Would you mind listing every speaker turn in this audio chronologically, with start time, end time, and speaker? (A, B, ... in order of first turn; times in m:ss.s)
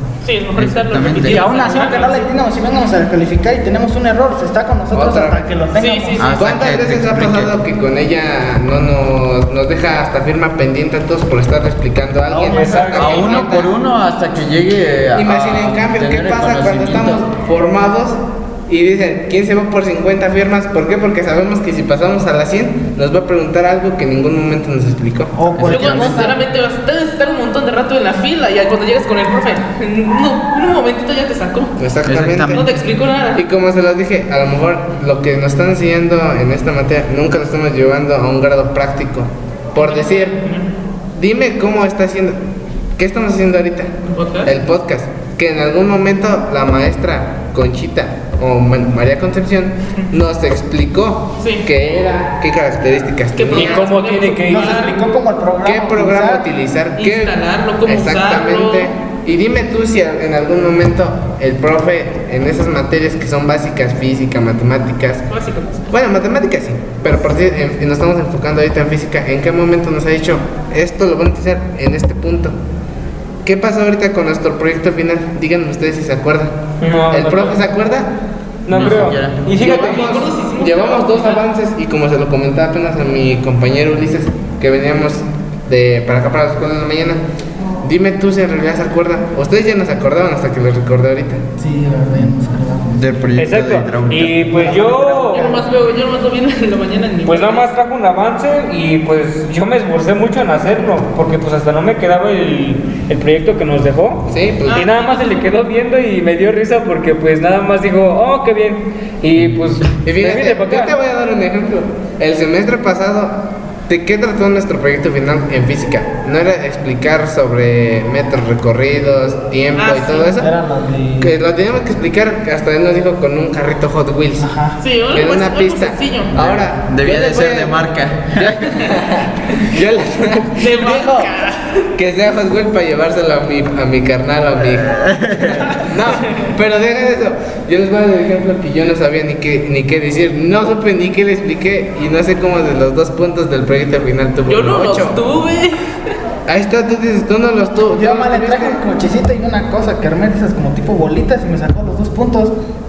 0:00.2-0:02.3 A
0:00.6-0:01.5 B
0:01.1-0:06.4 C
0:04.9-0:05.5 D
0:05.7-0:06.3 A
0:06.2-0:07.5 B
0:06.4-0:13.7 D
0:12.3-0:13.3 C
0:12.5-0:13.4 E
0:12.8-0:17.2 B
0:15.2-0:25.4 D
0:25.3-0:26.4 C
0:25.5-0:26.3 B
0:25.6-0:31.8 A
0:31.8-0:32.6 D
0:32.0-0:32.8 B
0:32.4-0:33.4 A
0:33.4-0:40.4 D
0:39.8-0:40.7 A
0:41.1-0:42.4 D
0:43.0-0:53.9 D
0:44.1-0:44.5 A
0:53.4-0:55.0 A
0:53.5-0:54.8 E
0:54.5-0:56.4 C
0:55.6-1:05.3 D
0:57.0-0:58.9 A
1:05.3-1:05.9 A
1:05.9-1:12.6 D
1:13.4-1:18.1 D
1:16.8-1:17.6 E
1:18.7-1:20.1 E
1:18.7-1:19.6 B
1:18.7-1:21.4 A
1:19.6-1:27.2 D
1:27.8-1:31.4 D
1:31.6-1:33.0 C
1:32.9-1:34.5 B
1:33.4-1:35.5 E
1:34.5-1:35.7 C
1:35.3-1:37.7 A
1:37.2-1:51.0 E
1:44.3-1:44.9 D
1:44.7-1:45.4 A
1:50.0-2:00.5 D
1:59.8-2:00.3 A
2:00.4-2:01.3 C
2:01.2-2:04.5 D
2:04.4-2:04.8 C
2:04.8-2:06.5 A
2:05.1-2:11.4 D
2:06.4-2:08.6 B
2:10.5-2:11.8 A
2:11.9-2:25.2 D
2:14.8-2:15.7 B
2:24.5-2:26.1 A
2:26.5-2:28.8 D
2:27.9-2:32.5 C